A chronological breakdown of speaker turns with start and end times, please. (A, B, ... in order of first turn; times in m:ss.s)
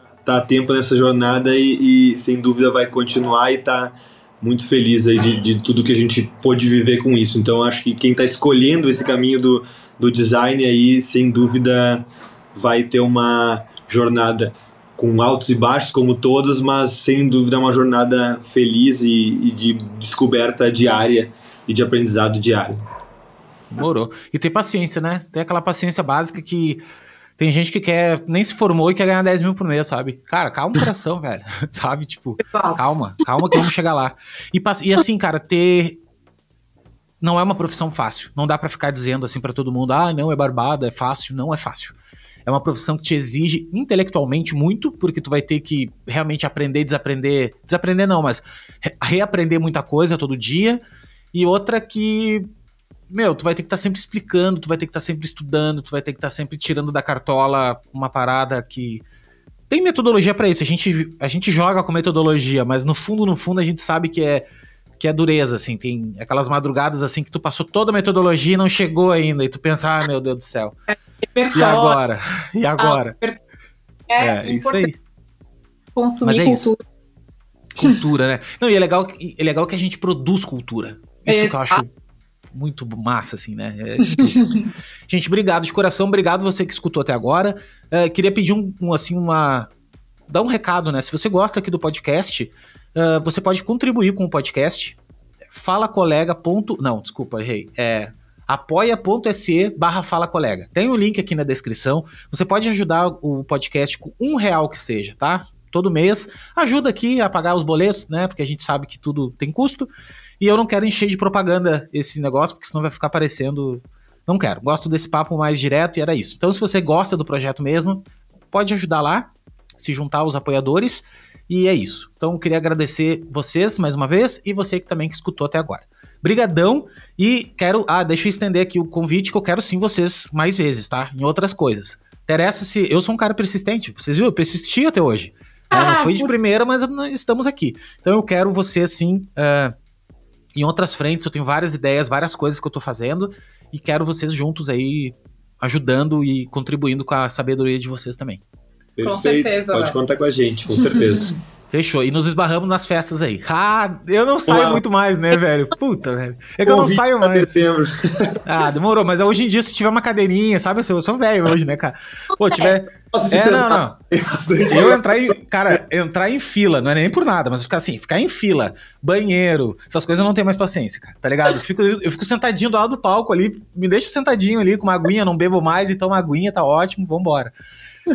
0:00.2-0:22.8 A
0:23.7-0:26.8 B
0:27.4-0:36.0 B
0:32.5-0:33.0 C
0:37.2-0:41.9 B
0:42.4-0:50.8 B
0:51.3-0:52.5 B
0:53.1-0:59.0 B
0:59.7-1:04.5 B
1:05.0-1:10.8 B
1:11.3-1:12.0 C
1:11.5-1:13.2 B
1:12.8-1:13.4 C
1:14.1-1:14.9 C
1:14.2-1:15.0 B
1:16.0-1:16.8 C
1:16.2-1:16.7 B
1:17.7-1:21.9 B
1:21.3-1:21.8 C
1:22.5-1:24.4 B
1:24.0-1:24.6 C
1:25.1-1:29.7 B
1:30.3-1:35.0 B
1:35.5-2:19.7 B
2:15.7-2:16.3 C
2:20.5-2:28.4 B
2:29.0-2:31.3 A
2:29.0-2:30.0 C
2:31.7-2:37.6 B
2:34.5-2:34.8 A
2:36.6-2:38.4 A
2:38.4-2:44.0 B
2:42.4-2:42.7 C
2:43.1-2:45.4 A
2:44.7-2:57.5 B